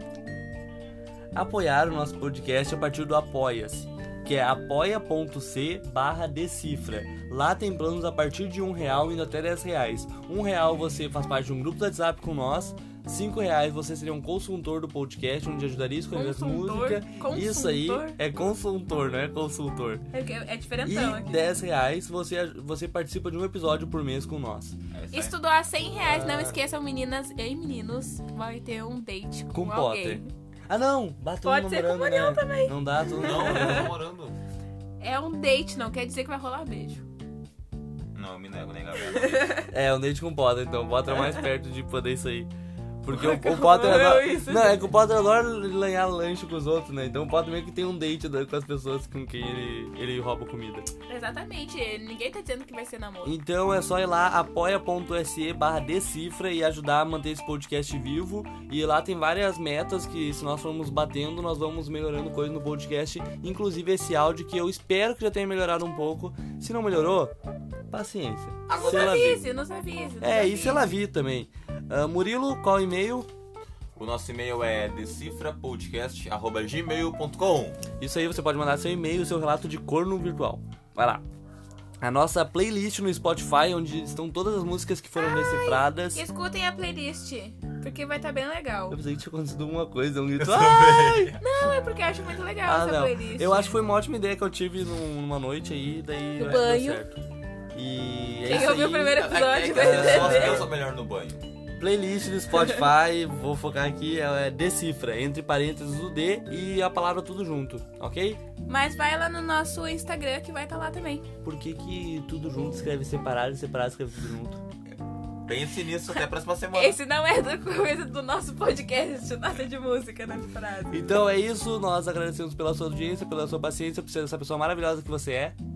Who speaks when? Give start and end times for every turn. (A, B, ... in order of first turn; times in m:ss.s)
0:01.3-0:20.0 A
0:16.1-0:18.2 B
0:20.1-0:21.4 B
0:20.8-0:24.8 A
0:24.9-0:25.3 C
0:25.1-0:30.3 B
0:25.9-0:26.6 A
0:29.5-0:33.9 A
0:31.4-0:33.8 B
0:33.2-0:34.4 C
0:35.0-0:37.0 B
0:38.1-0:39.5 C
0:39.0-0:39.7 B
0:39.7-0:42.5 A
0:43.0-0:50.9 A
0:43.1-0:44.9 B
0:51.1-0:53.4 B
0:53.2-1:07.3 A
1:07.9-1:09.4 A
1:08.7-1:09.4 C
1:08.7-1:10.9 B
1:10.2-1:13.3 A
1:14.0-1:17.8 C
1:18.0-1:21.2 A
1:22.0-1:26.2 A
1:25.2-1:29.0 B
1:28.9-1:31.4 A
1:30.4-1:31.4 C
1:31.4-1:33.8 B
1:32.6-1:37.2 A
1:36.4-1:37.0 B
1:37.7-1:39.2 A
1:38.4-1:40.6 B
1:38.5-1:41.4 C
1:39.7-1:40.7 A
1:41.8-1:48.4 A
1:48.6-1:51.2 B
1:51.4-1:54.6 A
1:55.4-1:57.0 C
1:56.1-2:01.2 B
2:00.9-2:05.6 A